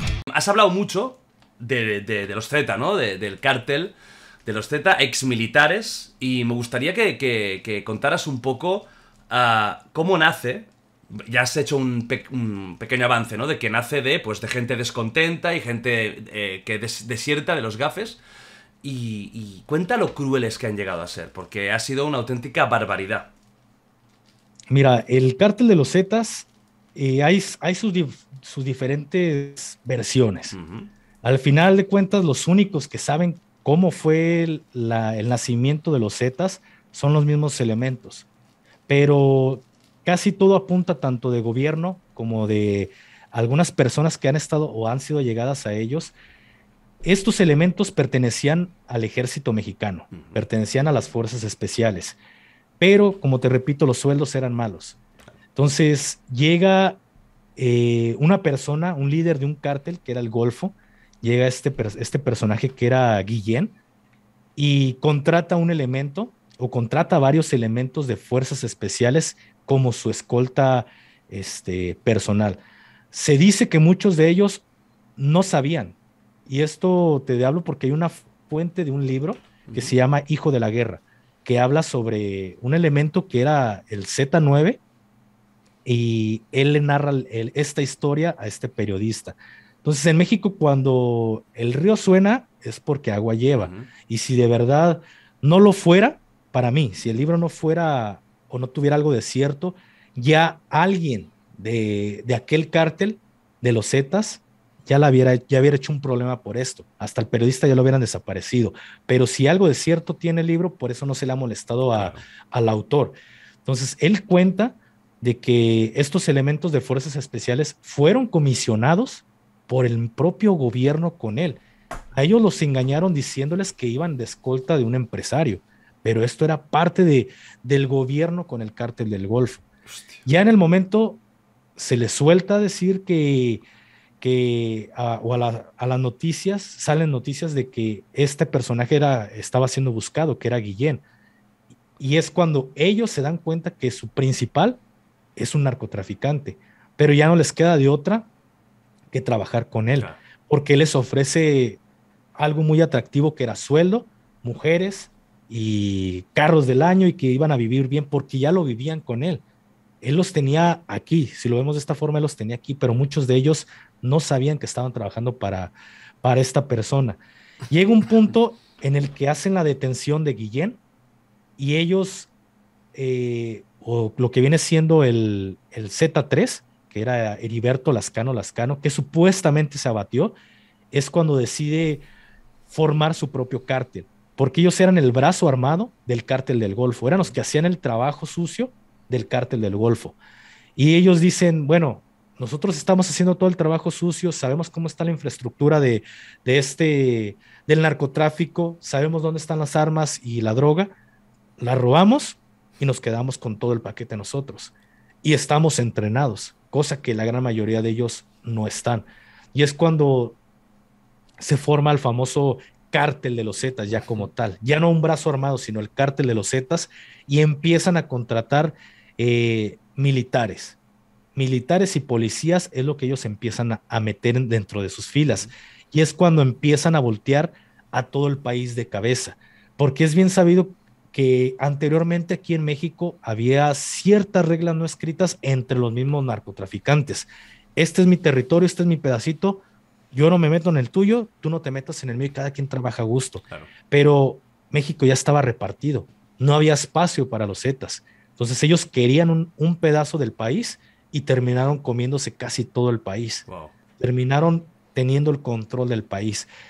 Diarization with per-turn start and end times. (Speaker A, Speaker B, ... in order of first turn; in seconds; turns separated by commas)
Speaker A: 0.3-18.2, Speaker A: 18.8-23.3, Speaker B: 24.7-30.5, Speaker A: 30.5-30.9, Speaker B: 31.2-38.2, Speaker B: 38.9-46.1, Speaker B: 47.0-52.2, Speaker A: 50.1-50.4, Speaker B: 52.8-55.0, Speaker B: 55.5-57.0, Speaker B: 57.6-63.7, Speaker B: 64.6-72.6, Speaker B: 73.1-74.6, Speaker B: 75.2-84.8, Speaker A: 79.7-80.0, Speaker B: 85.8-121.6, Speaker A: 93.5-93.9, Speaker A: 111.9-112.2, Speaker B: 122.1-129.6, Speaker A: 129.9-130.2, Speaker B: 130.2-131.2, Speaker B: 131.8-133.6, Speaker B: 134.2-141.0, Speaker B: 142.0-144.8, Speaker B: 145.4-148.3, Speaker B: 149.1-151.8, Speaker B: 152.3-159.4, Speaker B: 160.0-170.8, Speaker B: 171.6-172.3, Speaker B: 172.9-180.3, Speaker B: 180.9-182.0, Speaker B: 182.7-190.2, Speaker B: 190.8-200.9, Speaker B: 201.6-210.4, Speaker B: 211.4-220.8, Speaker B: 221.3-253.4, Speaker A: 253.4-253.7, Speaker B: 254.0-256.5